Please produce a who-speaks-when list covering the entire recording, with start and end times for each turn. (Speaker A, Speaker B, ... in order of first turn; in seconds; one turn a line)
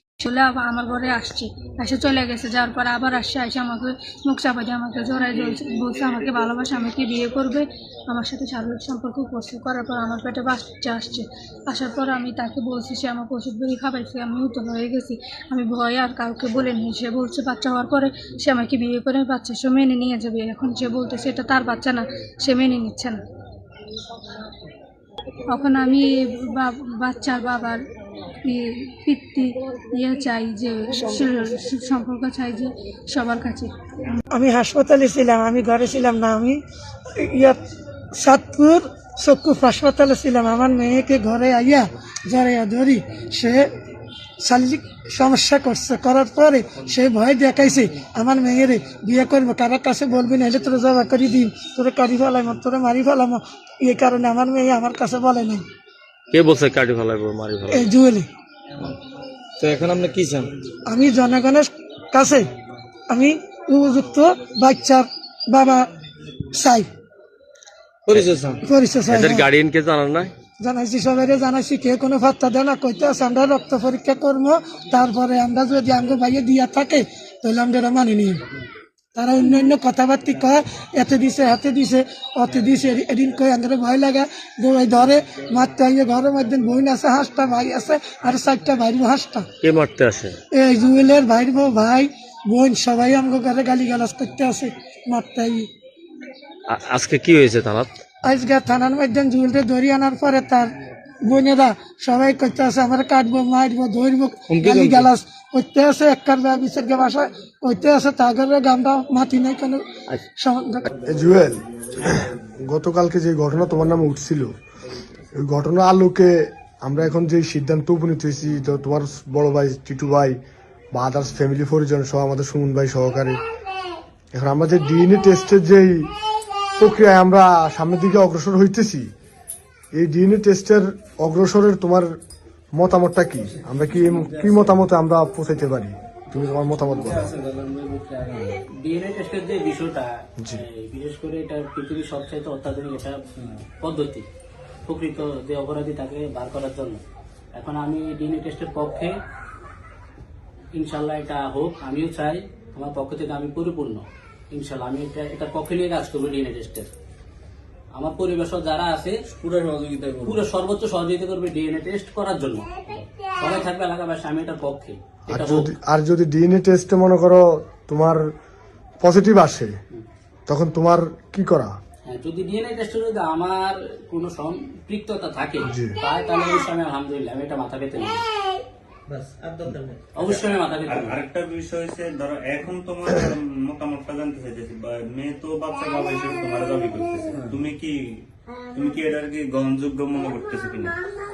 Speaker A: 0.2-23.2
Speaker A: 25.5-27.8
Speaker A: 28.4-33.7
Speaker B: 34.3-36.6
Speaker B: 37.1-37.6
Speaker B: 38.1-43.7
Speaker B: 44.4-55.6
Speaker C: 56.3-57.9
Speaker B: 57.7-58.3
Speaker D: 59.6-60.5
Speaker B: 60.9-62.5
Speaker B: 63.1-65.9
Speaker B: 66.5-66.9
Speaker D: 68.1-68.6
Speaker B: 68.6-69.5
Speaker C: 69.1-70.3
Speaker B: 70.6-78.4
Speaker B: 79.2-89.5
Speaker C: 89.6-90.4
Speaker B: 90.5-95.7
Speaker C: 96.7-97.9
Speaker B: 98.2-100.7
Speaker B: 101.2-110.9
Speaker D: 104.5-105.1
Speaker E: 111.0-114.5
Speaker E: 115.3-120.4
Speaker E: 120.9-123.4
Speaker E: 124.3-126.1
Speaker E: 126.8-129.1
Speaker E: 129.9-132.1
Speaker E: 132.7-137.3
Speaker F: 137.7-144.2
Speaker F: 144.8-147.0
Speaker F: 147.5-149.1
Speaker F: 150.7-156.9
Speaker F: 157.9-159.2
Speaker D: 159.4-160.3
Speaker F: 160.2-165.7
Speaker E: 165.3-168.2
Speaker E: 169.0-169.7
Speaker E: 170.5-171.7
Speaker F: 172.1-178.2
Speaker E: 175.6-175.9
Speaker D: 179.3-179.9
Speaker F: 180.1-181.2
Speaker G: 180.2-191.0